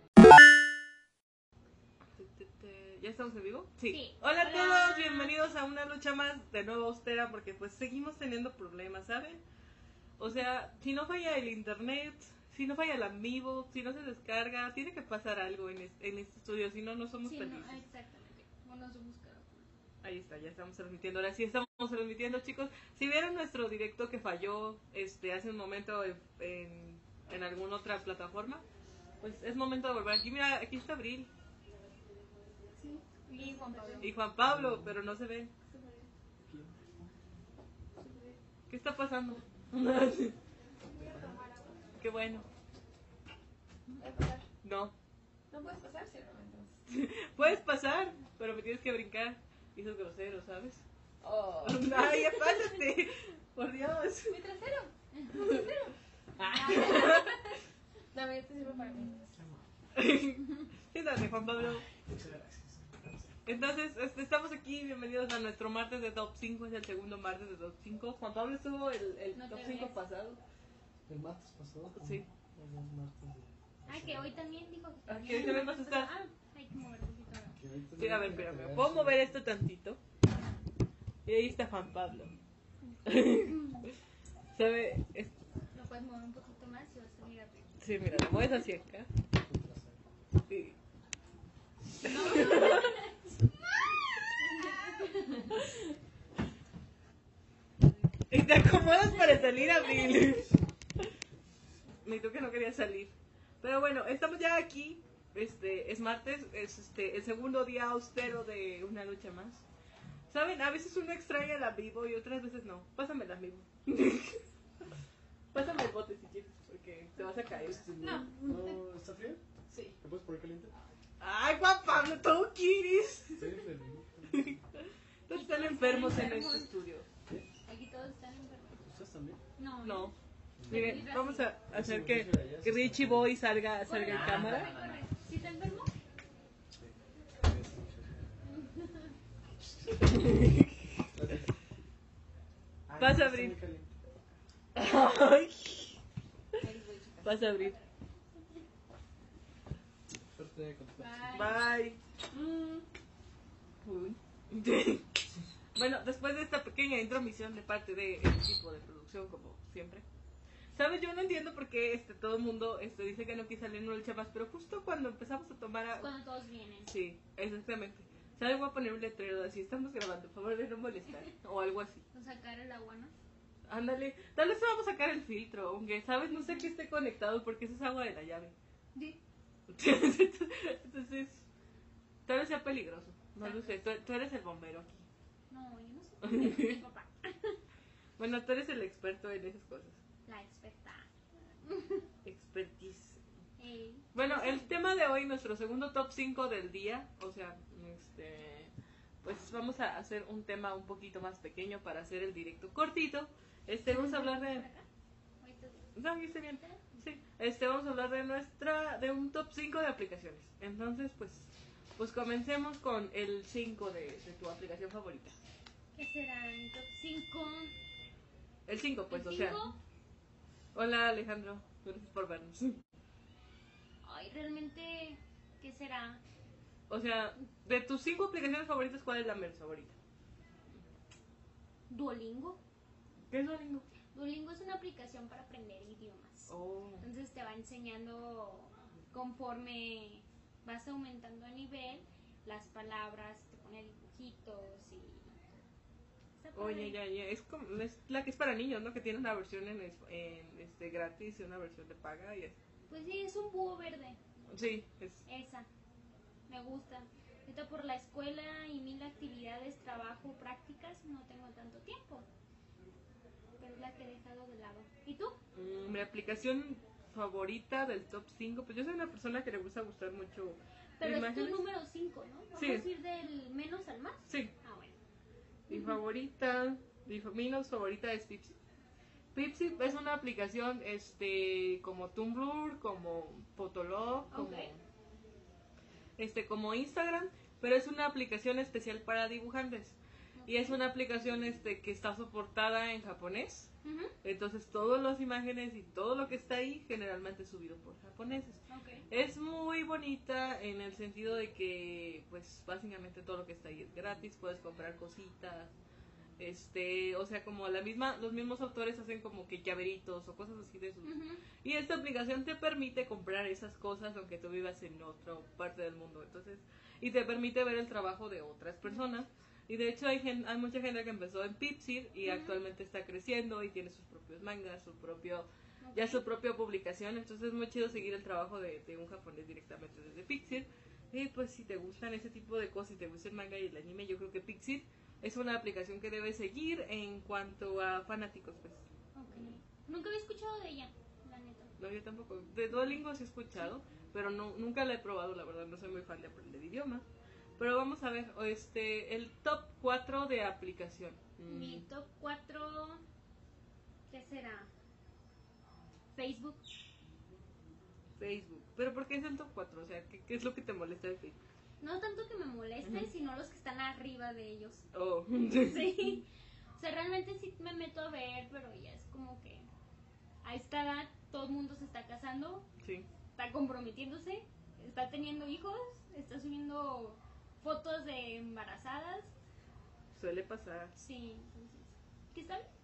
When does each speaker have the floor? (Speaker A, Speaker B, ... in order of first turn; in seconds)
Speaker A: 2.1-9.4, 10.2-17.8, 20.0-28.6, 29.2-31.3, 34.0-35.5, 38.7-40.4, 42.0-42.5, 44.6-44.9, 46.9-50.8, 51.6-54.4, 55.4-55.7, 56.4-57.3, 59.9-61.8, 63.5-70.4, 72.0-72.3, 75.1-76.1, 78.0-80.0, 81.2-82.3, 83.0-83.9, 84.5-85.3, 87.8-89.1, 90.5-90.8, 92.0-93.0, 98.3-100.5, 102.0-109.6, 110.3-114.4, 115.5-117.9, 121.2-123.6, 124.3-127.1, 129.8-130.1, 130.7-134.8, 140.0-140.9, 143.0-143.6, 144.8-146.0, 147.2-147.7, 151.3-152.4, 153.8-155.2, 155.8-160.0, 160.8-166.1, 166.8-172.0, 173.7-178.5, 179.7-181.4, 182.2-185.1, 186.2-186.8, 188.2-190.0, 192.2-193.2, 194.1-198.7, 199.2-204.7, 205.9-215.3, 218.7-219.6, 220.7-222.8, 226.9-230.0, 233.3-233.8, 236.5-237.0, 246.5-252.6, 254.5-255.2, 265.6-271.6, 272.6-272.9, 275.7-278.6, 279.4-284.8, 286.2-293.7, 294.2-305.7, 306.4-338.9, 341.8-347.1, 347.6-351.8, 358.2-361.4, 364.9-366.2, 372.8-373.1, 380.1-380.9
Speaker B: 3.9-5.3, 17.2-19.7, 33.1-34.1, 52.3-52.7, 55.1-55.6, 69.3-70.0, 73.9-77.6, 82.8-83.8, 85.7-88.4, 92.0-93.1, 94.6-95.6, 99.8-100.1, 125.3-126.7, 127.7-128.8, 129.6-130.1, 130.7-131.5, 133.8-135.9, 138.5-139.1, 146.6-148.6, 151.0-151.7, 166.0-166.9, 172.1-173.1, 176.4-176.7, 183.4-183.7, 185.5-187.6, 190.3-191.1, 191.6-192.1, 193.6-194.7, 203.9-204.9, 205.4-205.9, 215.9-217.7, 219.1-219.8, 224.0-226.2, 231.9-232.6, 234.1-245.5, 246.4-247.0, 252.9-254.2, 255.3-255.7, 256.5-262.3, 263.6-265.4, 271.0-275.0, 275.7-276.0, 284.3-284.7, 290.4-290.8, 293.8-294.1, 298.7-299.1, 311.0-311.4, 318.9-319.1, 322.3-322.6, 325.8-326.2, 339.1-341.7, 351.5-353.0, 354.1-354.7, 356.1-356.6, 361.8-364.9, 365.5-369.7, 370.4-372.7, 373.4-379.3, 381.0-382.7
Speaker C: 32.8-34.2, 35.7-36.1, 38.0-38.4, 40.9-41.8, 44.0-44.4, 45.5-46.8, 51.2-52.0, 54.3-54.9, 56.4-57.6, 58.1-59.4, 118.0-118.8, 119.7-120.0, 146.6-147.3, 152.3-152.8
Speaker D: 34.4-35.0, 36.4-37.1, 61.6-63.4, 71.1-74.3, 77.5-79.3, 89.4-90.0, 117.7-119.4, 120.0-120.7, 123.3-124.6, 128.8-129.4, 130.6-131.1, 131.7-133.3, 136.8-138.4, 139.6-140.2, 141.1-141.5, 142.9-144.0, 150.3-151.4